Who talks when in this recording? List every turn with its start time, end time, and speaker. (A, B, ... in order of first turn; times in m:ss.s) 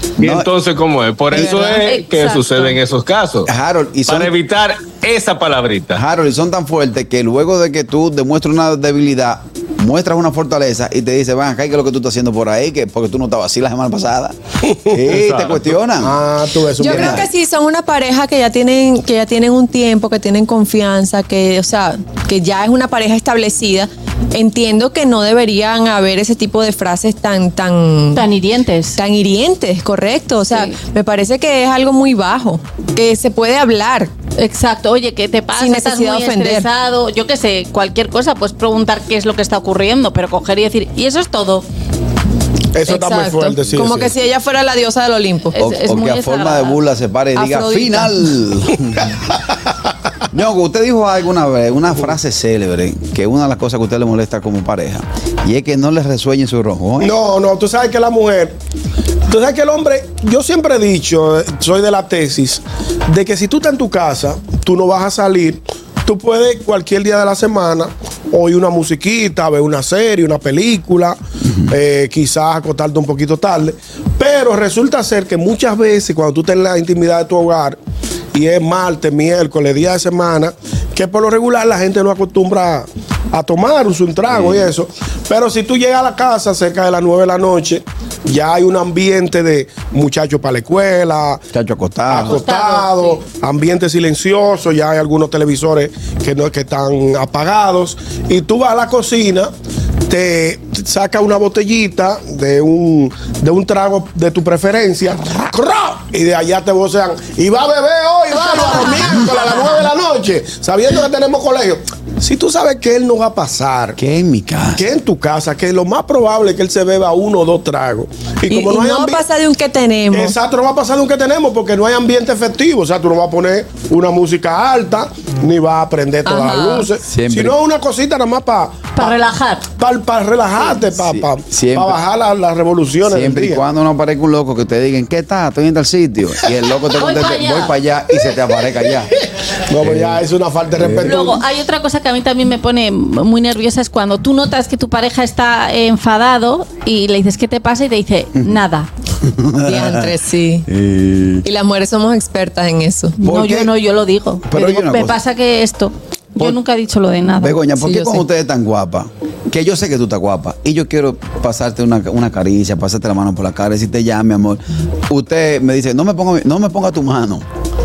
0:00.2-0:03.5 A
0:00.2-0:00.5 B
0:01.3-0:01.8 C
0:01.4-0:02.8 D
0:03.5-0:04.3 B
0:04.1-0:06.0 A
0:06.0-0:16.2 B
0:15.1-0:15.7 A
0:16.0-0:17.3 E
0:16.8-0:28.2 C
0:16.8-0:17.2 B
0:28.1-0:29.0 D
0:29.0-0:34.1 C
0:34.4-0:41.7 D
0:35.6-0:36.7 C
0:42.8-0:44.1 E
0:42.9-0:45.6 C
0:45.5-0:46.8 D
0:45.6-0:49.2 B
0:47.4-0:48.3 C
0:50.3-0:57.1 B
0:57.0-0:58.6 E
0:59.3-1:17.8 E
1:18.3-1:31.4 E
1:24.3-1:24.7 B
1:31.5-1:32.4 B
1:32.1-1:39.5 E
1:32.2-1:33.2 D
1:40.1-1:54.0 E
1:48.4-1:49.7 C
1:54.0-1:54.8 B
1:54.8-1:59.2 E
1:58.5-2:00.4 C
2:00.1-2:09.2 E
2:06.2-2:06.9 C
2:07.1-2:07.6 B
2:09.0-2:09.6 D
2:09.8-2:13.6 E
2:11.0-2:12.0 B
2:13.1-2:19.1 B
2:17.0-2:17.8 D
2:19.6-2:21.4 E
2:19.8-2:20.2 B
2:20.8-2:21.2 B
2:21.0-2:28.9 D
2:29.2-2:30.1 B
2:29.6-2:30.7 C
2:30.7-2:31.4 B
2:31.4-2:33.2 C
2:33.2-2:38.2 D
2:33.2-2:33.7 B
2:34.5-2:35.2 B
2:37.4-2:47.4 B